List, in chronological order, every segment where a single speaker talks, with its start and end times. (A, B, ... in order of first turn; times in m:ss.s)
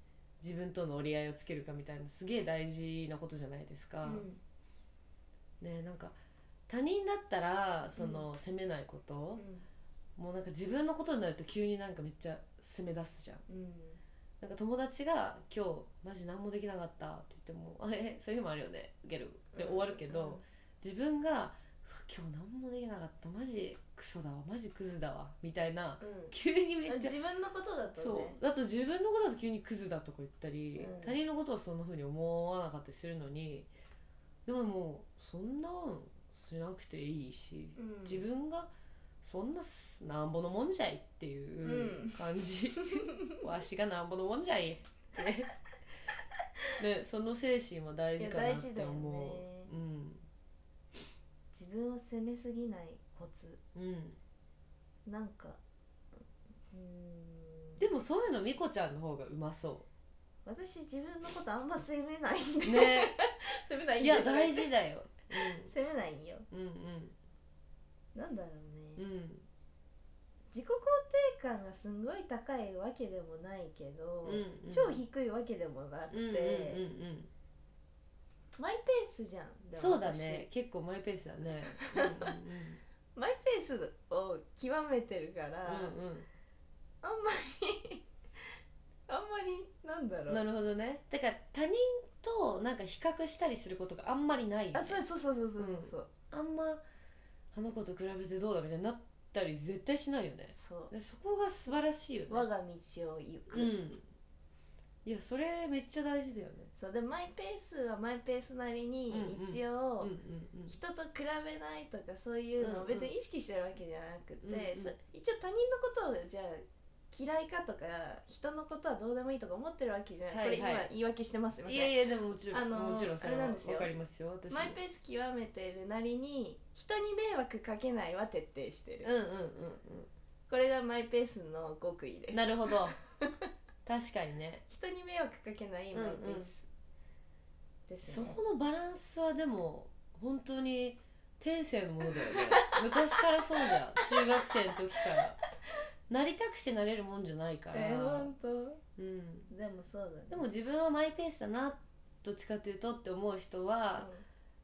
0:00.4-0:04.3 A
0:04.0-0:04.4 B
0:05.6-0:06.2 A
0:06.7-0:09.4 A
0:08.0-0:08.3 B
0:09.4-0:09.6 B
0:10.2-0:13.4 A
0:13.5-0:14.0 B
0:14.4-0:27.1 A
0:19.5-0:20.4 B
0:26.0-0:26.4 B
0:26.9-0:28.4 B
0:28.0-0:33.7 A
0:30.8-0:31.2 B
0:34.5-0:38.7 A
0:37.8-0:38.2 B
0:39.2-0:45.5 A
0:41.6-0:42.2 B
0:42.8-0:43.4 B
0:46.8-0:50.2 A
0:48.2-0:49.7 B
0:51.5-0:53.6 B
0:53.8-0:54.2 A
0:55.1-0:55.6 B
0:56.7-0:57.8 B
0:57.8-0:59.9 A
1:00.5-1:04.7 B
1:02.6-1:03.2 A
1:04.0-1:05.7 A
1:05.5-1:06.5 B
1:06.5-1:07.2 A
1:08.2-1:09.0 B
1:09.0-1:09.5 A
1:10.5-1:16.8 B
1:14.2-1:15.0 A
1:16.1-1:17.3 A
1:18.6-1:20.5 B
1:19.8-1:22.8 A
1:21.7-1:22.4 B
1:23.2-1:26.0 B
1:25.7-1:26.3 A
1:27.0-1:28.0 B
1:29.1-1:30.4 B
1:30.3-1:35.0 A
1:34.7-1:36.1 B
1:35.6-1:36.8 A
1:37.5-1:42.5 A
1:40.5-1:40.9 B
1:42.3-1:43.7 B
1:43.5-1:44.1 A
1:45.0-1:46.7 A
1:46.8-1:50.1 B
1:49.1-1:50.8 A
1:50.7-2:02.0 B
1:52.6-1:53.1 A
1:54.4-1:55.0 A
2:00.3-2:00.9 A
2:01.7-2:04.8 A
2:02.5-2:03.9 B
2:04.5-2:09.1 B
2:09.0-2:10.1 A
2:10.5-2:13.3 B
2:12.3-2:13.0 A
2:13.8-2:14.6 A
2:14.7-2:16.7 B
2:15.9-2:16.5 A
2:17.9-2:18.4 B
2:18.0-2:25.4 A
2:22.3-2:23.2 B
2:24.0-2:24.4 B
2:26.1-2:28.3 A
2:27.7-2:28.8 B
2:29.0-2:29.5 A
2:29.5-2:30.5 B
2:30.3-2:34.1 A
2:34.0-2:34.2 B